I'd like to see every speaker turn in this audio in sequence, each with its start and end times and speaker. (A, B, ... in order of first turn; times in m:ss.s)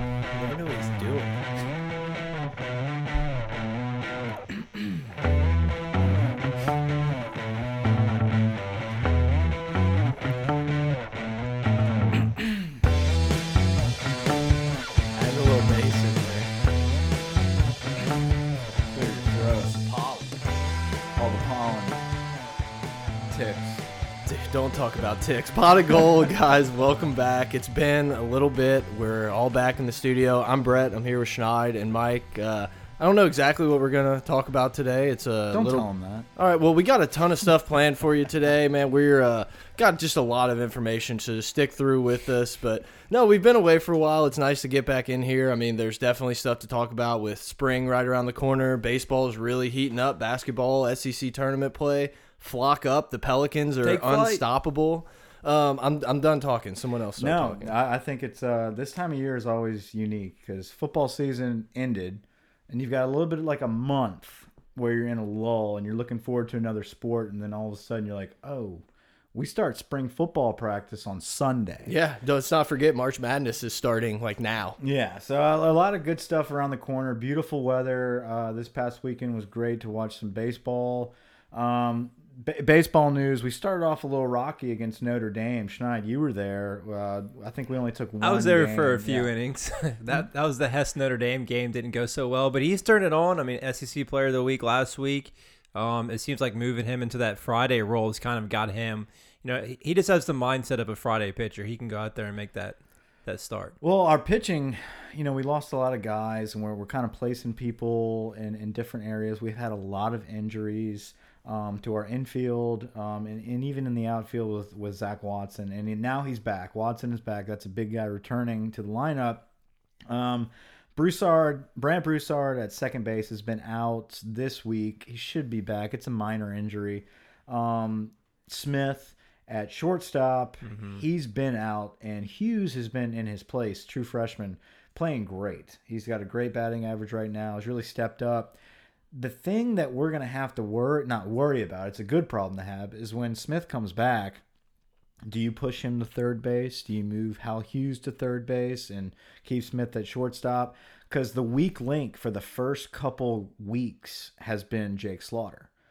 0:00.3-0:01.6 A
0:15.2-0:16.5 A
0:18.9-0:20.3 B
0:19.9-0:20.2 A
0:21.2-0:22.0 B
0:23.3-0:23.9 B
0:24.3-0:57.7 A
0:35.5-0:36.3 B
0:53.8-0:54.4 C
0:57.2-1:08.8 B
1:09.3-1:11.9 B
1:11.9-1:14.8 A
1:14.8-1:29.3 B
1:28.2-1:43.8 C
1:43.8-1:59.5 B
2:00.1-2:18.6 B
2:10.6-2:11.0 C
2:19.1-2:24.4 B
2:25.3-2:35.7 B